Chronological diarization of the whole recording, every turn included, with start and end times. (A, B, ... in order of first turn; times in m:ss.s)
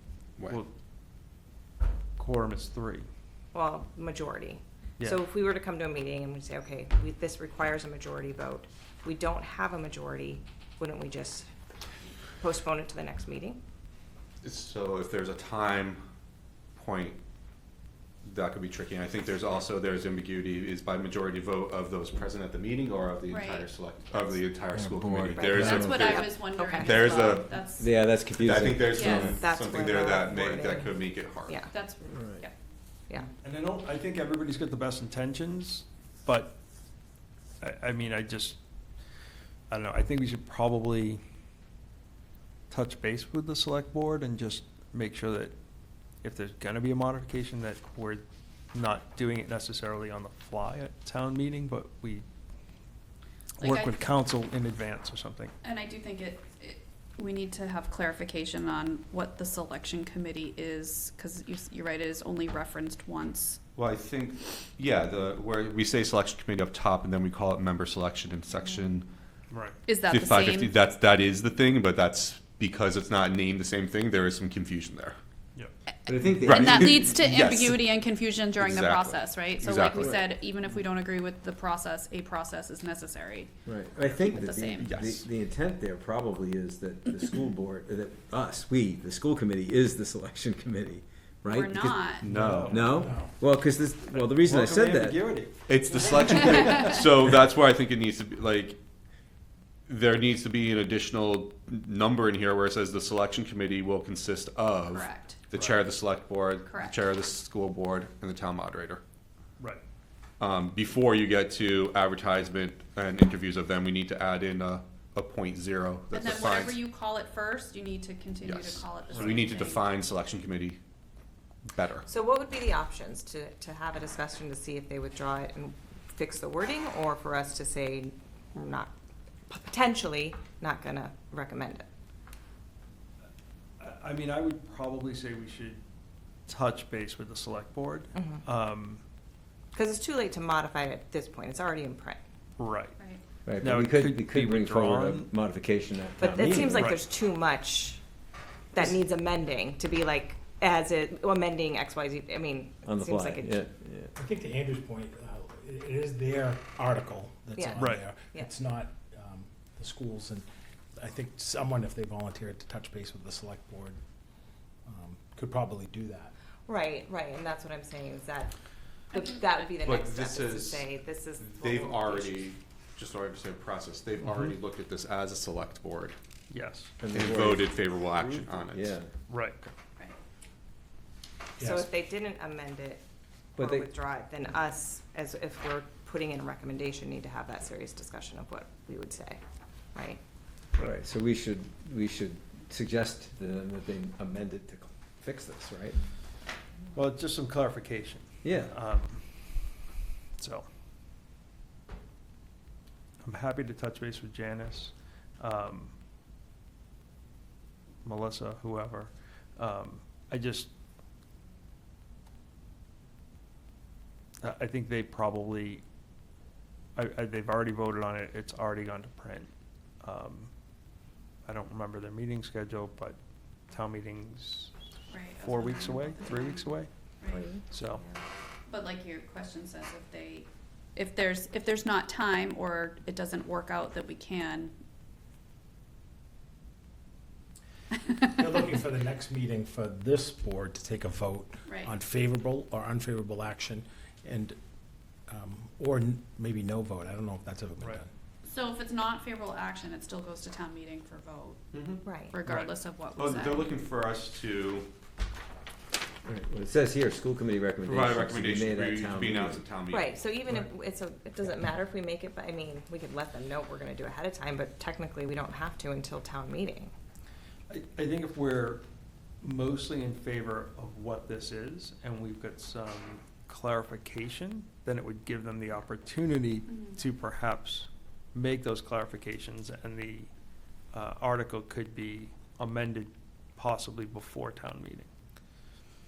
0:02.2-0:03.1 A
0:03.5-0:11.5 B
0:12.4-0:13.6 B
0:14.4-0:16.0 C
0:16.8-0:17.2 C
0:18.2-0:27.7 C
0:23.3-0:24.4 D
0:24.7-0:26.0 E
0:25.3-0:27.0 B
0:25.5-0:28.1 D
0:27.8-0:29.4 E
0:28.4-0:31.6 C
0:28.9-0:29.4 D
0:29.1-0:31.7 B
0:31.7-0:32.5 D
0:32.1-0:32.4 E
0:33.4-0:36.6 A
0:37.6-0:38.6 A
0:39.7-0:41.2 A
0:42.7-0:45.6 A
0:46.2-0:52.3 A
0:53.6-0:54.1 D
0:53.6-0:55.6 A
0:55.6-1:03.6 D
1:03.8-1:09.1 C
1:09.5-1:09.8 A
1:09.9-1:10.8 D
1:10.1-1:15.2 C
1:16.1-1:17.1 E
1:16.1-1:24.9 D
1:16.4-1:17.9 C
1:18.6-1:20.2 C
1:23.7-1:35.4 E
1:24.8-1:25.3 C
1:31.5-1:32.3 D
1:32.2-1:32.9 C
1:32.3-1:33.1 A
1:32.9-1:33.3 F
1:34.1-1:36.8 A
1:35.7-1:38.8 C
1:39.9-1:49.0 C
1:44.9-1:45.4 D
1:45.5-1:45.8 A
1:46.7-1:47.0 D
1:50.4-1:56.8 C
1:56.1-1:59.9 D
1:58.4-2:00.8 C
1:59.1-1:59.4 A
2:01.7-2:02.1 C
2:02.1-2:08.9 B
2:09.5-2:11.9 B
2:13.8-2:15.8 A
2:16.5-2:19.0 A
2:18.2-2:18.4 B
2:19.7-2:22.2 B
2:22.6-2:23.0 A
2:23.4-2:26.9 E
2:23.6-2:25.3 A
2:26.2-2:28.0 B
2:26.7-2:27.0 A
2:28.7-2:33.6 B
2:32.8-2:34.1 E
2:34.2-2:44.0 F
2:37.6-2:38.6 B
2:37.8-2:38.1 A
2:44.9-2:46.3 F
2:46.7-2:48.6 B
2:49.1-2:52.5 B
2:49.1-2:49.8 D
2:49.8-2:56.2 C
2:56.5-2:56.9 A
2:57.0-2:59.1 E
2:57.1-2:59.0 C
2:59.3-2:59.6 A
3:01.6-3:01.9 F
3:01.6-3:03.0 B
3:03.6-3:03.9 E
3:03.6-3:09.4 B
3:10.0-3:10.2 B
3:10.8-3:16.0 E
3:16.9-3:19.8 A
3:18.4-3:18.7 E
3:20.4-3:20.7 A
3:23.2-3:25.9 A
3:28.0-3:30.7 A
3:34.4-3:35.8 A
3:37.0-3:40.5 A
3:41.4-3:43.2 A
3:43.7-3:44.7 A
3:45.1-3:47.5 D
3:45.4-3:46.9 A
3:47.2-3:48.2 B
3:47.6-3:48.0 A
3:48.7-3:54.7 D
3:58.4-4:04.6 F
4:01.7-4:01.9 D
4:05.3-4:08.1 F
4:08.4-4:11.7 D
4:11.7-4:12.0 C
4:12.0-4:12.4 B
4:12.3-4:13.7 D
4:12.4-4:12.7 A
4:13.2-4:14.9 C
4:16.2-4:19.6 E
4:17.8-4:20.2 C
4:19.9-4:26.9 B
4:27.7-4:28.8 A
4:29.4-4:40.3 A
4:36.7-4:37.0 D
4:40.9-4:45.1 A